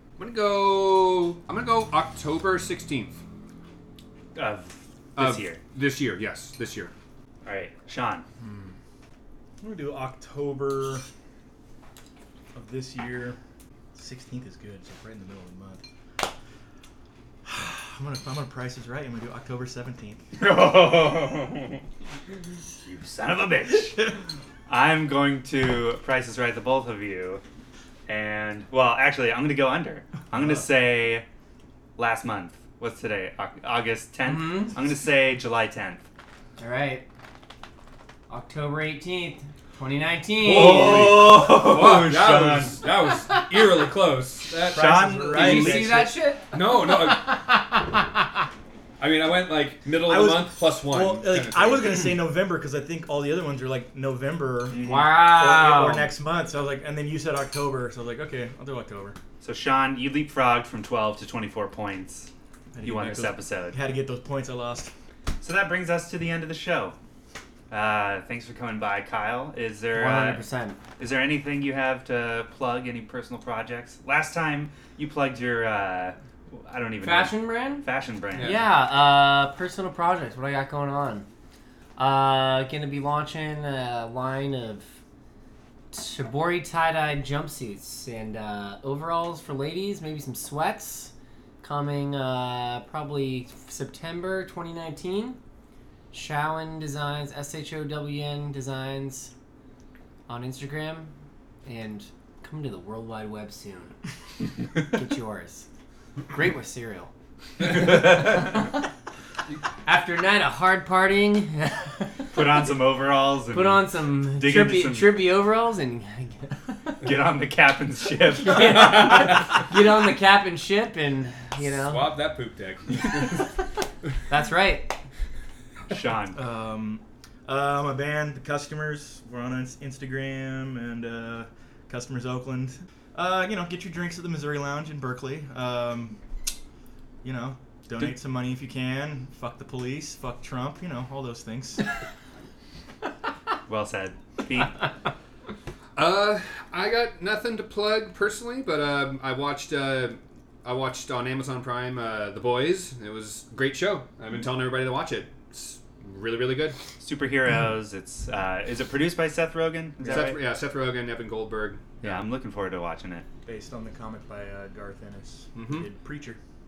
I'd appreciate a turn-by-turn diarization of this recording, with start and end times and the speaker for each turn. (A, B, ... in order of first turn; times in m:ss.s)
0:00.2-0:03.2 A
0:04.3-0:05.6 B
0:05.2-0:06.9 A
0:07.4-0:08.2 B
0:08.4-0:08.8 C
0:09.6-0:11.0 C
0:12.5-0:13.4 C
0:13.9-0:15.8 C
0:17.4-0:20.2 C
0:20.4-0:21.8 B
0:22.8-0:24.1 B
0:24.7-0:27.4 B
0:28.1-0:31.2 B
0:32.0-0:36.0 B
0:34.2-0:34.7 D
0:36.6-0:37.0 D
0:38.3-0:41.1 D
0:40.4-0:47.4 A
0:40.5-0:42.8 B
0:44.7-0:45.8 B
0:44.7-0:46.1 C
0:45.3-0:48.2 D
0:49.0-0:52.0 A
0:49.9-0:59.2 C
0:54.7-0:55.3 B
0:54.8-0:56.1 D
0:59.4-1:02.3 B
1:02.7-1:04.9 C
1:02.8-1:03.8 B
1:05.4-1:07.0 B
1:07.7-1:10.4 B
1:09.9-1:10.8 D
1:11.0-1:18.6 B
1:17.0-1:17.8 D
1:18.3-1:18.6 A
1:18.4-1:21.2 D
1:22.0-1:24.9 D
1:25.9-1:35.4 D
1:36.1-1:39.3 D
1:40.3-1:41.1 D
1:41.6-1:43.9 D
1:44.7-1:45.6 D
1:46.3-1:47.1 D
1:47.6-1:48.6 D
1:49.8-1:52.4 D
1:52.3-1:55.2 B
1:53.5-1:57.0 D
1:57.0-1:59.3 B
1:58.4-2:02.1 D
2:01.7-2:03.4 A
2:03.1-2:03.6 D
2:04.3-2:04.9 D
2:05.9-2:06.4 B
2:06.3-2:16.2 C
2:17.2-2:21.8 C
2:23.7-2:24.9 B
2:26.0-2:36.8 A
2:37.0-2:40.4 B
2:40.0-2:40.4 C
2:40.0-2:42.0 A
2:42.0-2:43.2 B
2:43.4-2:46.4 C
2:45.5-2:45.8 A